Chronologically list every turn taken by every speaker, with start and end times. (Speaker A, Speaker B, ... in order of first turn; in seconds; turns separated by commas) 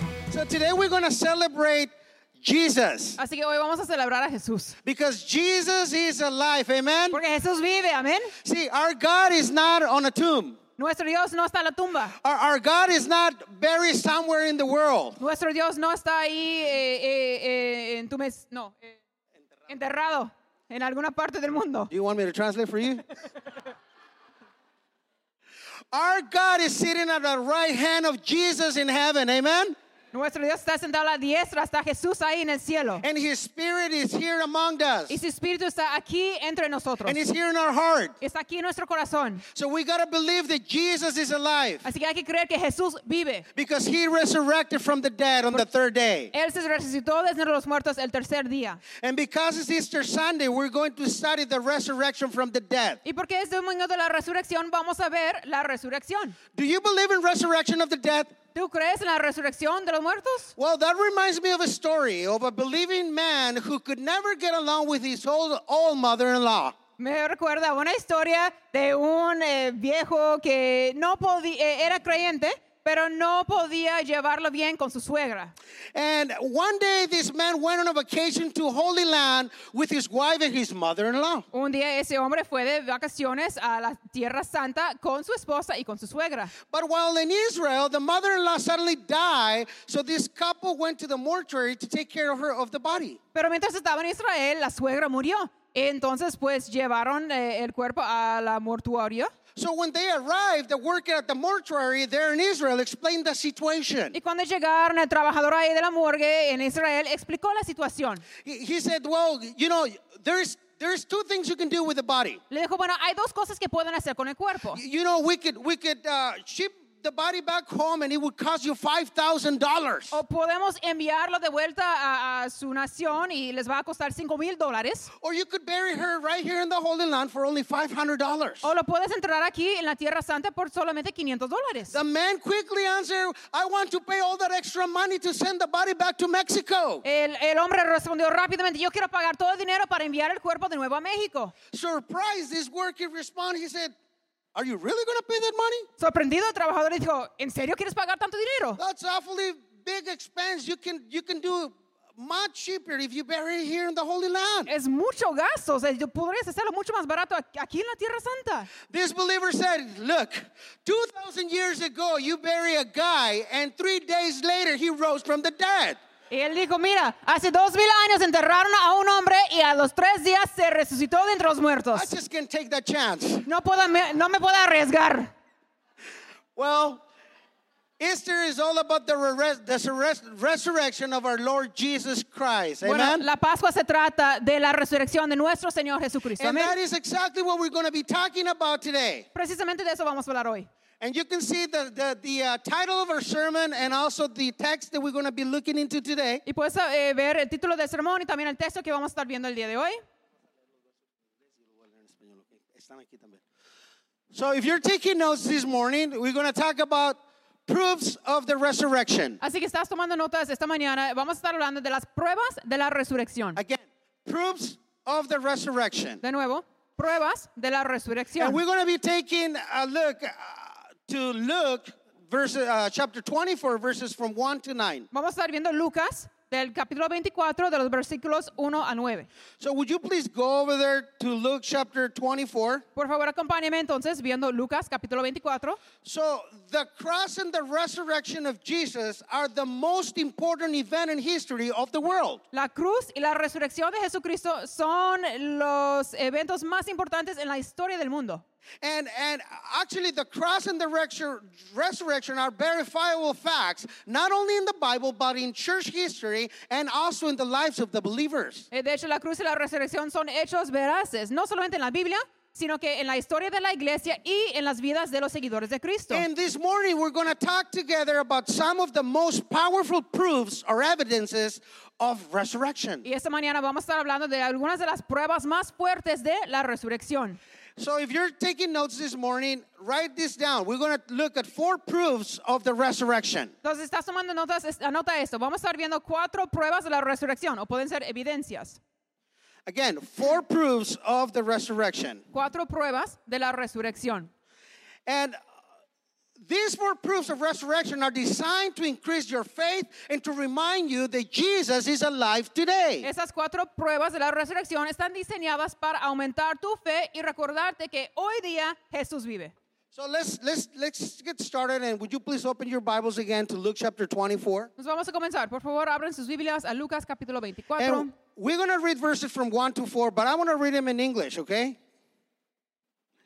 Speaker A: 0.3-3.2, Speaker B: 3.2-4.8, Speaker A: 4.8-7.2, Speaker B: 7.1-8.3, Speaker A: 8.4-10.6, Speaker B: 10.8-12.1, Speaker A: 12.2-15.2, Speaker B: 15.2-19.0, Speaker B: 19.7-21.9, Speaker A: 21.9-23.0, Speaker A: 25.9-29.8, Speaker B: 30.1-33.0, Speaker A: 33.0-35.2, Speaker B: 35.1-37.2, Speaker A: 37.0-38.1, Speaker B: 38.2-39.4, Speaker A: 39.5-41.8, Speaker B: 41.8-43.5, Speaker A: 43.5-46.3, Speaker B: 46.3-48.8, Speaker A: 49.0-53.0, Speaker B: 53.0-56.4, Speaker A: 56.5-58.3, Speaker B: 58.5-60.5, Speaker A: 60.6-66.8, Speaker B: 67.0-75.5, Speaker A: 75.9-81.5, Speaker B: 81.5-86.5, Speaker A: 86.7-93.2, Speaker B: 93.3-99.3, Speaker A: 99.5-104.2, Speaker B: 104.1-108.2, Speaker A: 108.4-112.4, Speaker B: 112.5-114.8, Speaker A: 114.7-120.2, Speaker B: 120.1-125.1, Speaker A: 125.2-128.7, Speaker B: 128.6-132.0, Speaker A: 131.9-137.0, Speaker B: 137.0-141.5, Speaker A: 141.7-143.9, Speaker A: 144.5-145.9, Speaker B: 146.0-148.8, Speaker A: 148.8-154.7, Speaker B: 154.7-158.7, Speaker A: 158.9-166.0, Speaker B: 166.3-172.1, Speaker A: 171.9-173.4, Speaker B: 173.4-175.3, Speaker A: 176.6-177.0, Speaker A: 178.0-183.2, Speaker B: 182.8-186.7, Speaker A: 186.4-189.2, Speaker B: 189.3-190.7, Speaker A: 191.0-196.4, Speaker B: 196.4-200.0, Speaker A: 201.7-203.4, Speaker A: 204.3-209.4, Speaker B: 209.4-213.6, Speaker A: 213.6-216.2, Speaker B: 216.2-218.6, Speaker A: 218.4-225.1, Speaker B: 225.1-229.3, Speaker A: 229.6-232.8, Speaker B: 232.9-235.8, Speaker A: 236.0-242.4, Speaker B: 242.5-248.4, Speaker A: 248.8-258.7, Speaker B: 258.7-266.2, Speaker A: 266.1-273.1, Speaker B: 273.0-277.4, Speaker A: 277.8-283.5, Speaker B: 283.6-288.8, Speaker A: 289.7-292.2, Speaker B: 292.3-294.3, Speaker A: 295.1-295.4, Speaker A: 296.4-303.1, Speaker B: 303.0-309.5, Speaker A: 309.9-314.7, Speaker B: 314.8-318.1, Speaker A: 317.8-321.8